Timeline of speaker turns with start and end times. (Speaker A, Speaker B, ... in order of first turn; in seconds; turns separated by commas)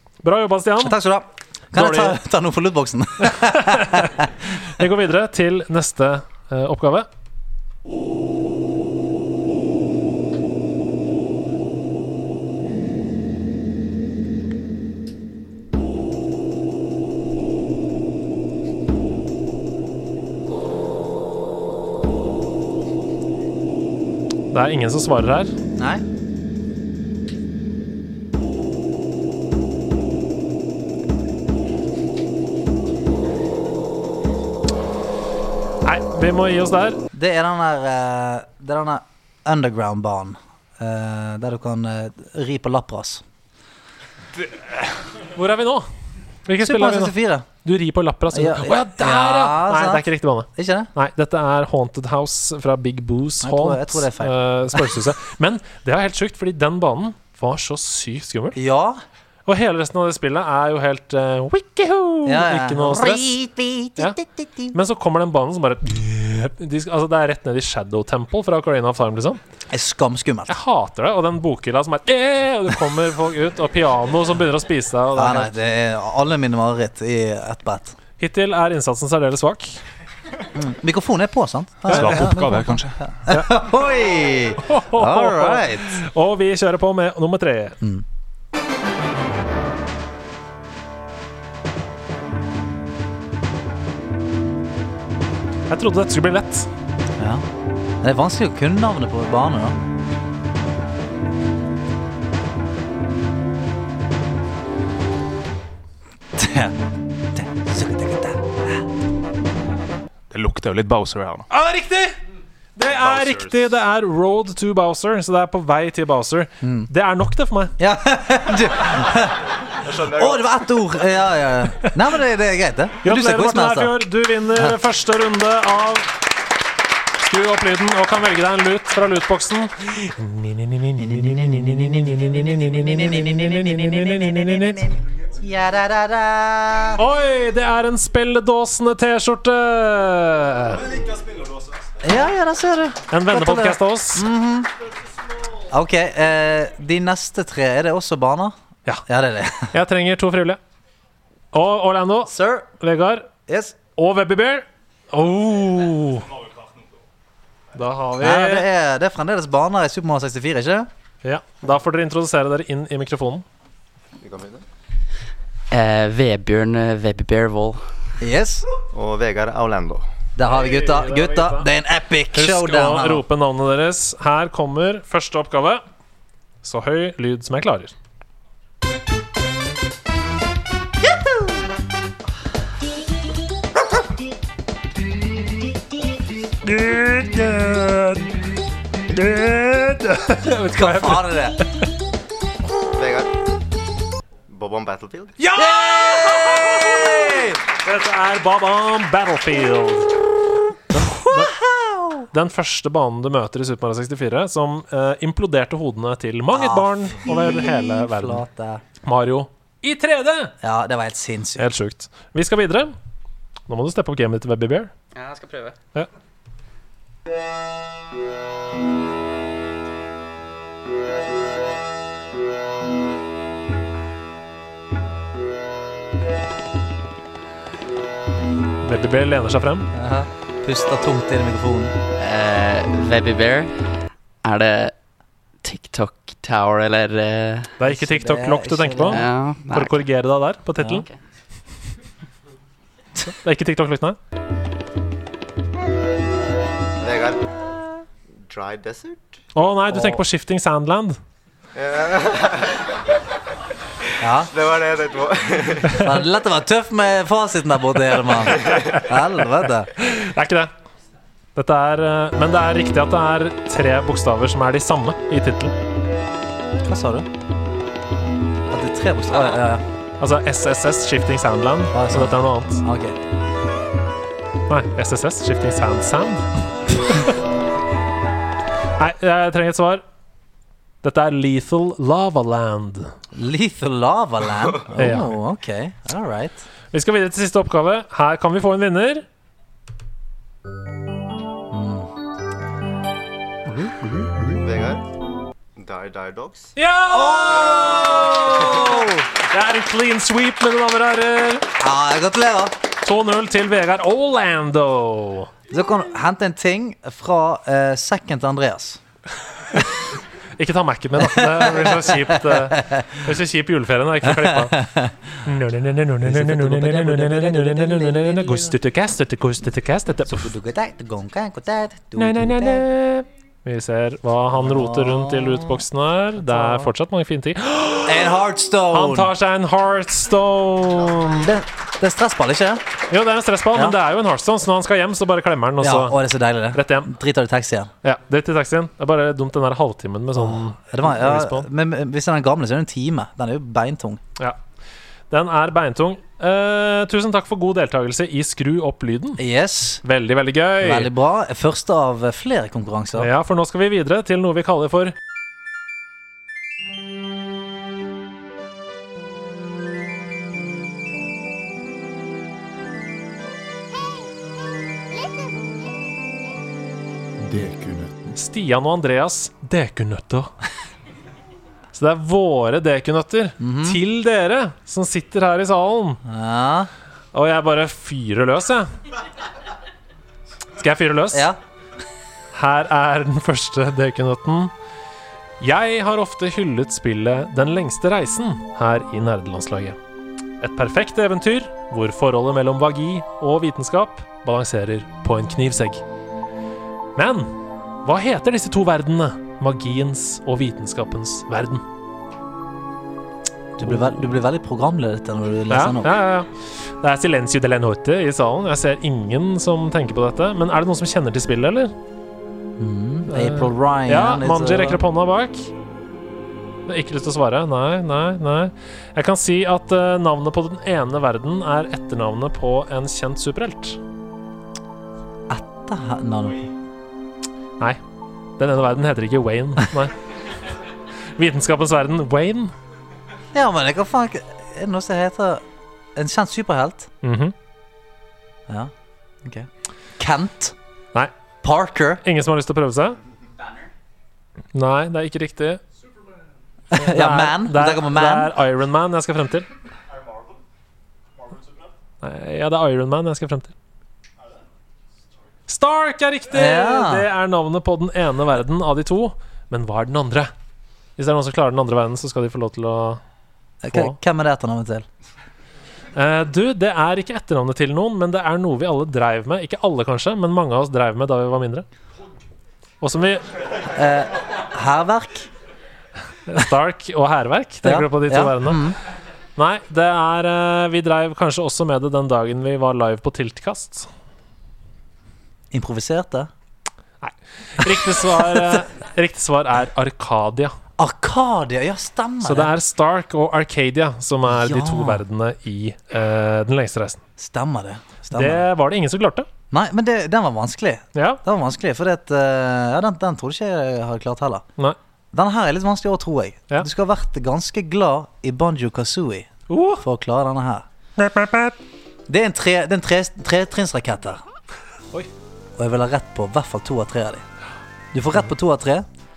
Speaker A: 0.2-0.9, Speaker B: 0.8-4.3, Speaker A: 1.7-2.2, Speaker A: 3.2-7.1, Speaker A: 24.5-25.5, Speaker B: 25.8-26.0, Speaker A: 35.8-37.0, Speaker B: 37.1-43.2, Speaker A: 45.3-45.9, Speaker A: 46.5-58.6, Speaker B: 46.6-47.5, Speaker B: 48.3-50.9, Speaker B: 53.4-54.9, Speaker B: 58.5-59.0, Speaker A: 59.5-63.3, Speaker B: 62.2-64.8, Speaker A: 64.7-69.4, Speaker B: 69.7-70.5, Speaker A: 70.5-75.5, Speaker B: 75.1-78.0, Speaker A: 78.2-79.8, Speaker B: 80.5-86.0, Speaker A: 81.9-82.5, Speaker C: 81.9-83.0, Speaker A: 84.6-87.8, Speaker A: 95.7-96.7, Speaker B: 97.2-97.4, Speaker B: 98.0-99.8, Speaker B: 106.3-106.8, Speaker B: 107.3-108.8, Speaker C: 110.3-111.5, Speaker A: 111.5-112.2, Speaker A: 112.8-117.7, Speaker C: 112.8-113.8, Speaker B: 116.6-116.9, Speaker B: 117.8-124.0, Speaker C: 119.8-120.3, Speaker A: 123.0-126.1, Speaker A: 127.2-134.8, Speaker B: 131.0-137.0, Speaker A: 137.0-140.9, Speaker C: 140.8-141.9, Speaker B: 142.0-144.7, Speaker A: 143.1-144.3, Speaker B: 145.7-148.6, Speaker B: 149.1-149.7, Speaker A: 149.7-150.6, Speaker A: 151.5-153.3, Speaker B: 152.3-152.7, Speaker B: 153.5-153.8, Speaker A: 154.0-156.3, Speaker C: 156.0-157.0, Speaker A: 157.8-158.7, Speaker B: 158.2-160.9, Speaker A: 161.2-163.4, Speaker D: 164.2-164.6, Speaker E: 165.7-167.8, Speaker B: 168.2-168.7, Speaker D: 168.9-170.1, Speaker B: 170.3-173.2, Speaker A: 170.4-171.7, Speaker A: 172.3-175.8, Speaker A: 176.6-177.9, Speaker B: 181.1-181.6, Speaker A: 186.6-188.3, Speaker A: 189.1-191.9, Speaker B: 190.7-191.6, Speaker D: 192.9-193.3, Speaker D: 194.5-195.3, Speaker A: 195.4-200.1, Speaker B: 195.6-197.6, Speaker A: 200.9-201.5, Speaker B: 200.9-202.3, Speaker A: 202.3-208.4, Speaker B: 206.5-208.8, Speaker A: 209.0-210.5, Speaker B: 210.6-211.7, Speaker A: 211.6-212.9, Speaker A: 213.7-214.9, Speaker E: 215.1-215.8, Speaker A: 228.8-229.9, Speaker B: 229.9-231.9, Speaker E: 232.2-233.9, Speaker E: 234.4-234.9, Speaker E: 235.6-237.7, Speaker A: 237.8-241.0, Speaker B: 237.8-239.2, Speaker E: 239.1-240.0, Speaker E: 240.8-241.2, Speaker A: 243.2-244.2, Speaker D: 247.0-247.5, Speaker D: 248.4-249.4, Speaker A: 249.5-251.2, Speaker B: 249.9-250.2, Speaker D: 251.7-252.9, Speaker B: 254.2-254.5, Speaker D: 254.5-256.1, Speaker B: 256.0-259.9, Speaker A: 259.9-260.7, Speaker A: 261.5-265.7, Speaker B: 266.8-267.3, Speaker B: 268.7-269.8, Speaker A: 270.2-272.8, Speaker B: 271.9-273.2, Speaker A: 274.7-276.5, Speaker A: 279.0-280.0, Speaker A: 281.0-283.1, Speaker B: 283.3-286.6, Speaker A: 285.0-285.3, Speaker A: 286.9-289.2, Speaker B: 291.7-292.1, Speaker B: 293.6-294.5, Speaker D: 294.5-295.0, Speaker D: 295.8-296.7, Speaker A: 296.8-301.7, Speaker B: 297.1-299.2, Speaker B: 301.8-302.8, Speaker A: 303.0-305.5, Speaker B: 305.7-309.0, Speaker A: 310.6-314.8, Speaker B: 311.2-313.3, Speaker B: 314.2-315.1, Speaker A: 315.4-320.5, Speaker B: 316.2-318.7, Speaker B: 320.2-322.9, Speaker A: 322.2-328.4, Speaker B: 324.5-325.8, Speaker B: 326.4-326.9, Speaker B: 328.0-329.3, Speaker A: 328.9-331.4, Speaker B: 331.2-332.8, Speaker A: 333.1-336.2, Speaker B: 335.8-337.9, Speaker A: 336.7-337.1, Speaker A: 338.0-341.7, Speaker B: 340.4-344.2, Speaker A: 345.3-349.4, Speaker B: 349.4-350.0, Speaker A: 350.0-351.1, Speaker B: 350.8-353.3, Speaker A: 353.1-355.1, Speaker A: 368.3-370.5, Speaker A: 371.9-376.2, Speaker B: 373.6-374.0, Speaker B: 376.2-376.9, Speaker A: 377.3-378.9, Speaker A: 380.8-381.5, Speaker B: 381.3-381.6, Speaker A: 382.5-384.7, Speaker A: 385.6-390.0, Speaker A: 390.6-396.0, Speaker A: 397.1-397.5, Speaker A: 398.0-401.8, Speaker B: 403.8-406.1, Speaker A: 403.8-404.1, Speaker A: 405.7-411.9, Speaker B: 412.8-415.0, Speaker A: 413.3-415.7, Speaker A: 416.9-424.0, Speaker B: 425.5-426.7, Speaker A: 428.6-430.2, Speaker A: 431.4-432.7, Speaker B: 433.5-435.6, Speaker B: 436.1-437.1, Speaker A: 437.2-437.5, Speaker B: 439.4-440.8, Speaker B: 441.6-442.2, Speaker A: 442.2-443.2, Speaker E: 443.6-443.9, Speaker A: 444.7-445.8, Speaker B: 446.9-448.5, Speaker A: 446.9-449.7, Speaker C: 450.1-450.6, Speaker C: 451.4-451.9, Speaker A: 452.2-453.7, Speaker A: 455.7-460.5, Speaker B: 456.5-457.3, Speaker A: 461.2-463.2, Speaker B: 463.8-465.1, Speaker A: 463.9-464.2, Speaker A: 466.1-471.9, Speaker A: 473.0-473.4, Speaker B: 473.9-475.5, Speaker A: 476.4-478.9, Speaker B: 477.8-479.0, Speaker A: 479.6-484.1, Speaker B: 485.7-486.5, Speaker A: 487.2-490.7, Speaker B: 488.1-488.8, Speaker B: 491.0-492.7, Speaker A: 492.4-497.2, Speaker B: 494.4-495.2, Speaker B: 497.4-498.6, Speaker A: 498.3-499.5, Speaker B: 499.7-504.6, Speaker A: 501.1-501.4, Speaker B: 505.3-510.9, Speaker A: 509.7-510.0, Speaker A: 511.2-511.8, Speaker B: 512.3-514.4, Speaker B: 515.8-517.4, Speaker B: 518.1-519.0